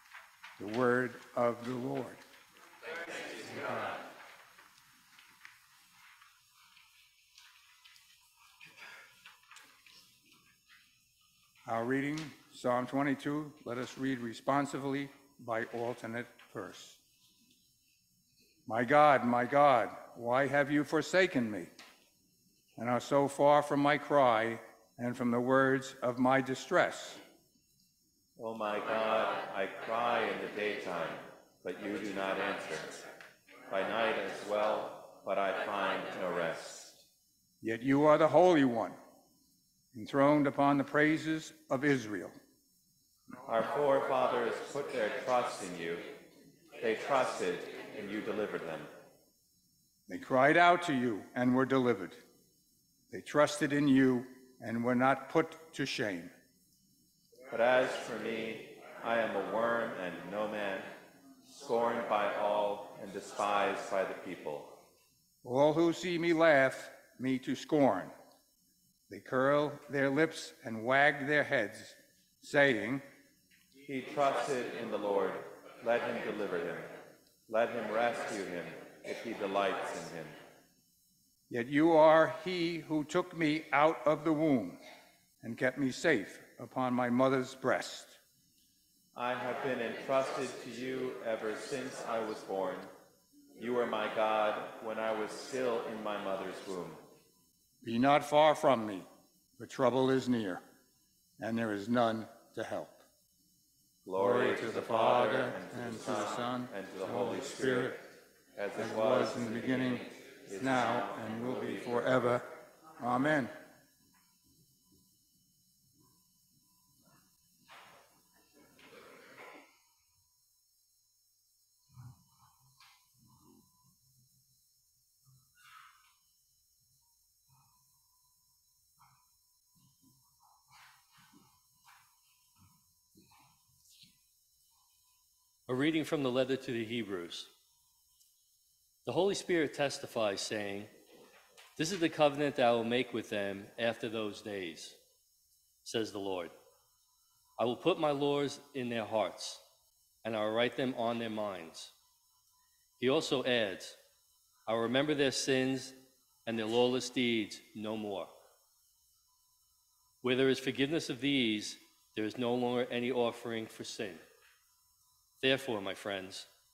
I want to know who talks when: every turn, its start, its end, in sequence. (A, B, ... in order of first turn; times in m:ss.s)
0:00.6-0:02.2 A
0:03.5-0:04.0 A
0:11.6-0:17.0 A
0:18.7-0:21.7 A
0:22.8-0:27.2 A
0:28.4-0:33.0 B
0:33.7-0:36.9 B
0:37.6-0:39.0 A
0:39.9-0:42.4 A
0:43.4-0:46.1 B
0:46.8-0:48.9 B
0:50.1-0:52.2 A
0:53.1-0:56.3 A
0:57.5-1:00.9 B
1:01.6-1:04.8 B
1:05.4-1:08.1 A
1:09.1-1:13.0 A
1:13.8-1:16.9 B
1:17.5-1:20.4 B
1:21.5-1:24.8 A
1:25.4-1:28.2 A
1:29.2-1:32.9 B
1:33.6-1:37.0 B
1:37.8-1:40.6 A
1:41.4-1:43.0 A
1:44.0-1:52.2 B
1:44.2-1:48.0 A
1:48.8-1:50.1 A
1:50.6-1:53.5 A
2:15.7-2:17.5 C
2:19.1-2:20.9 C
2:21.8-2:25.0 C
2:25.8-2:26.5 C
2:27.6-2:29.6 C
2:30.2-2:31.9 C
2:33.0-2:34.0 C
2:34.7-2:38.3 C
2:40.2-2:44.2 C
2:45.4-2:46.5 C